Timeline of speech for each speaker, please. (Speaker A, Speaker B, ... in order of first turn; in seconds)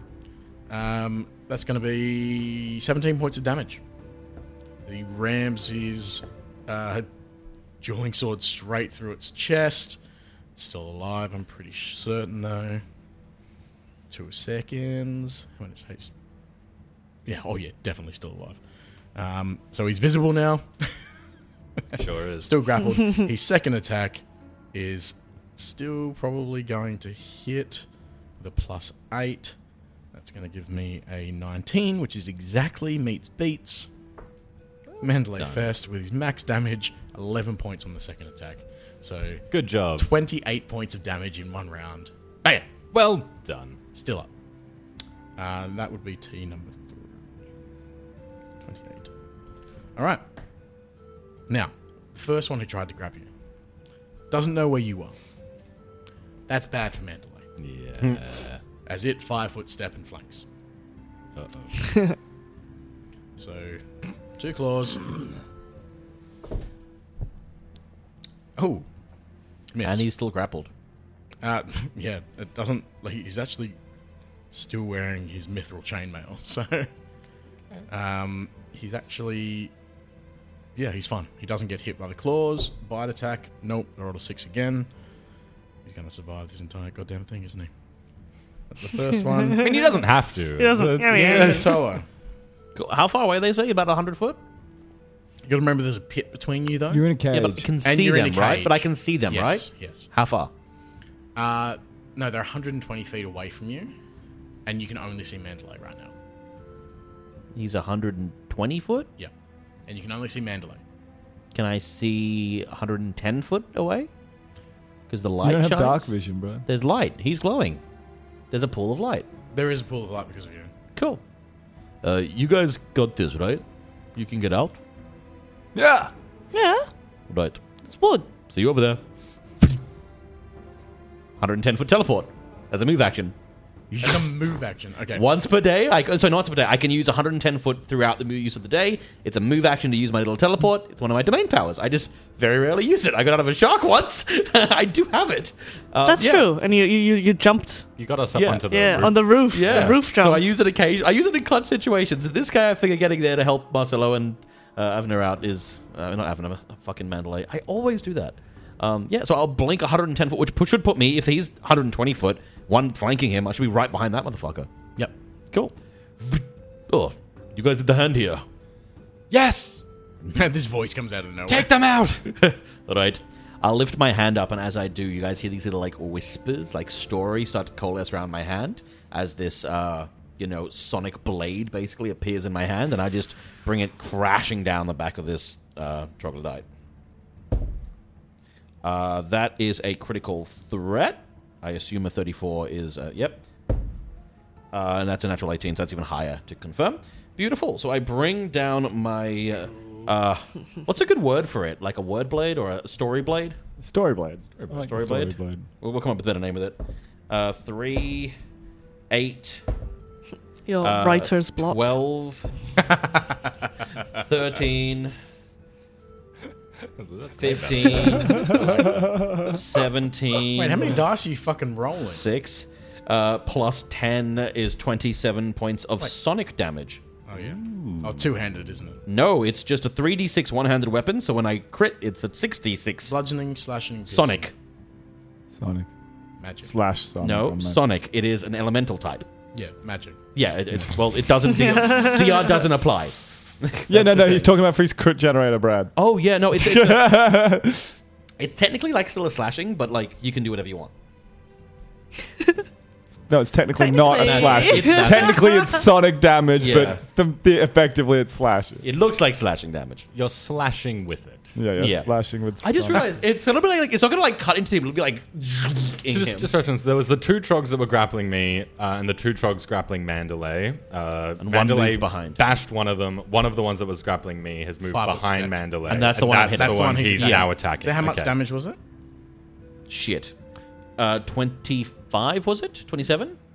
Speaker A: 0.7-3.8, 4.9-7.1, 7.8-10.0, 10.6-12.8, 14.1-16.1, 17.3-18.6, 19.1-20.9, 22.4-24.2, 24.7-27.9, 28.4-29.6, 30.1-33.9, 35.0-42.1, 43.9-44.3, 45.4-47.1, 48.6-49.1, 50.0-50.2, 51.5-53.3, 54.3-55.2, 56.5-57.5, 58.9-60.4, 63.4-63.8, 64.4-65.2, 68.6-68.9, 69.7-70.1, 71.4-73.8, 74.5-76.9, 77.9-79.7, 80.8-84.9, 85.8-87.7, 88.7-89.8, 91.0-92.0, 95.4-97.0, 97.8-100.1, 101.4-103.9, 104.7-106.1, 109.9-110.8, 119.5-120.7, 134.0-135.3, 170.3-171.7, 220.4-222.2, 227.3-229.0, 233.1-234.5, 236.4-236.7, 239.5-240.2, 274.9-278.8
Speaker B: 21.9-22.6, 39.5-40.1, 42.9-43.8, 57.6-58.6, 61.4-61.9, 89.5-91.8, 148.0-150.0, 169.3-169.8, 171.5-172.3, 204.6-204.9, 217.0-219.4, 260.1-261.9, 266.1-278.3
Speaker C: 35.4-35.7, 69.8-70.7, 92.8-94.4, 97.3-100.5, 107.5-109.1, 111.5-114.1, 115.1-116.1, 116.7-117.8, 118.5-119.3, 121.0-121.2, 122.0-124.8, 127.3-127.6, 128.4-129.0, 131.4-133.3, 133.9-134.3, 135.1-146.5, 148.3-148.7, 149.5-164.7, 165.5-168.4, 172.3-186.7, 188.8-193.4, 194.7-203.6, 204.8-208.4, 209.1-209.6, 210.8-212.5, 214.1-215.2, 217.4-221.0, 222.0-227.0, 227.6-228.1, 229.1-233.1, 234.1-234.5, 237.2-239.3, 240.3-244.5, 246.0-247.1, 248.4-250.9, 253.9-255.7, 256.6-257.0, 258.8-260.1, 261.8-266.5, 271.4-272.4, 275.9-277.5, 279.9-280.3, 281.0-283.4
Speaker D: 89.5-90.0, 90.6-91.8, 126.5-126.9, 127.9-128.3, 146.1-147.9, 148.7-150.5, 210.7-211.8, 241.7-242.2, 253.8-255.8
Speaker E: 96.9-97.7, 115.4-116.7, 125.8-126.1, 203.8-205.7, 235.5-235.9, 236.6-237.8, 243.9-245.9, 246.5-248.0, 253.3-258.8, 261.6-263.1